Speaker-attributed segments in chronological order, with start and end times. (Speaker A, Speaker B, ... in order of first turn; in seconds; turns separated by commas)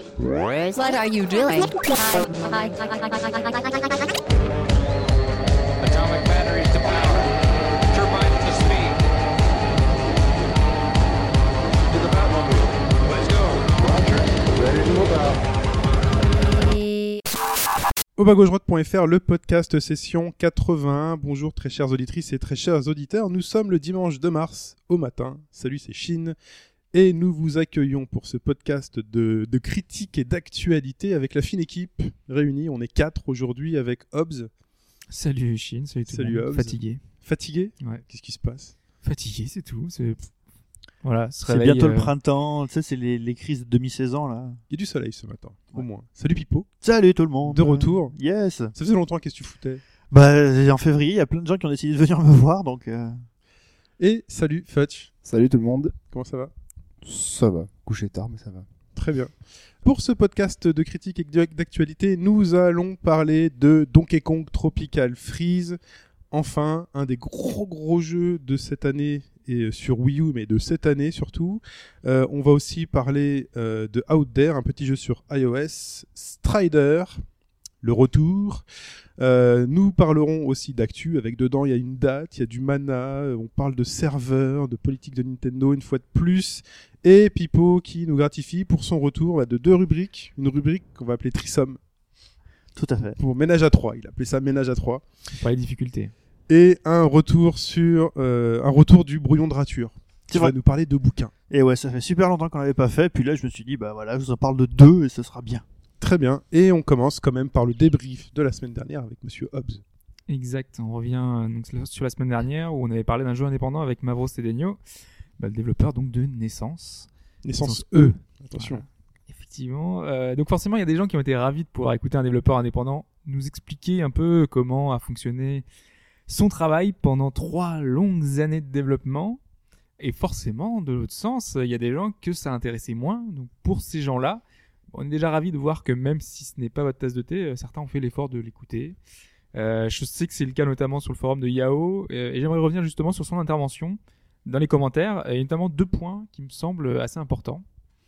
Speaker A: 0.2-4.1, Speaker B: 5.8-7.3, Speaker B: 7.9-9.1, Speaker B: 11.8-15.4, Speaker A: 16.3-17.2, Speaker C: 18.2-26.3, Speaker C: 26.9-34.5, Speaker D: 35.1-37.0, Speaker C: 36.1-38.7, Speaker D: 39.0-40.3, Speaker D: 41.0-42.1, Speaker E: 41.5-44.6, Speaker C: 44.7-46.7, Speaker E: 46.8-48.7, Speaker C: 47.5-48.1, Speaker C: 48.7-49.8, Speaker E: 50.1-53.2, Speaker C: 54.0-55.1, Speaker F: 55.2-55.9, Speaker C: 56.1-56.5, Speaker F: 57.0-58.6, Speaker C: 59.0-65.8, Speaker C: 66.3-77.2, Speaker C: 77.8-78.6, Speaker C: 79.2-91.8, Speaker E: 92.8-93.2, Speaker C: 93.2-95.0, Speaker D: 95.3-96.1, Speaker C: 96.5-101.3, Speaker E: 101.5-105.6, Speaker C: 106.0-109.8, Speaker D: 110.3-114.8, Speaker D: 115.4-117.1, Speaker C: 117.4-118.8, Speaker D: 117.6-125.6, Speaker D: 126.3-129.4, Speaker D: 130.0-134.4, Speaker D: 134.9-139.0, Speaker D: 139.5-147.6